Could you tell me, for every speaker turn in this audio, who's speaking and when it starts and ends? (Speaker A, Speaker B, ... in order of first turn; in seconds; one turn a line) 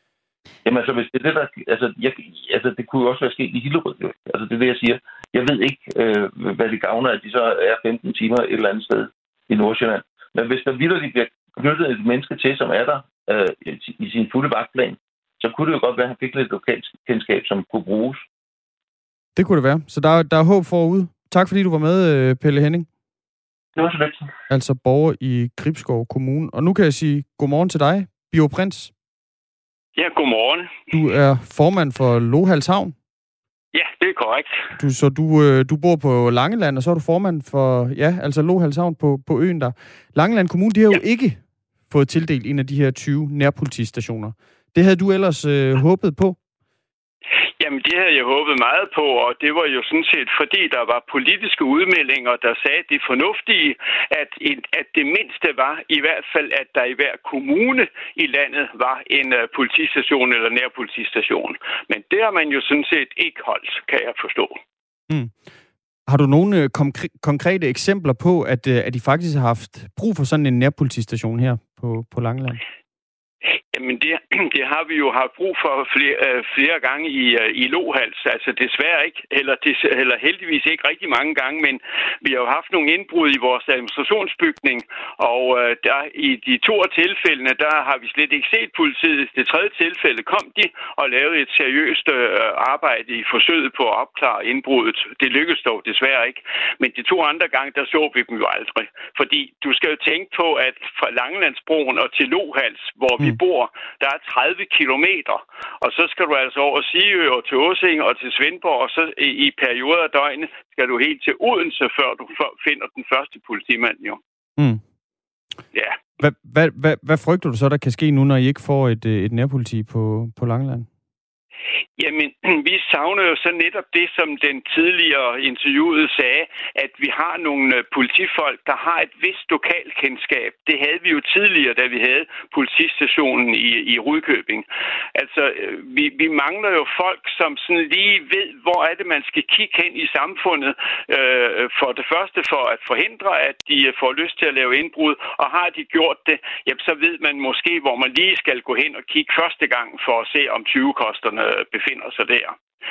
Speaker A: 0.7-18.2
Speaker B: 19.4-22.9
Speaker A: 23.8-24.3
Speaker B: 24.5-28.9
Speaker C: 30.0-30.8
Speaker B: 30.9-33.0
Speaker C: 33.7-34.6
Speaker B: 34.8-46.4
Speaker C: 47.6-64.6
Speaker B: 65.1-65.3
Speaker B: 66.1-72.6
Speaker C: 73.7-114.2
Speaker B: 114.6-114.8
Speaker B: 116.2-120.9
Speaker C: 122.0-152.6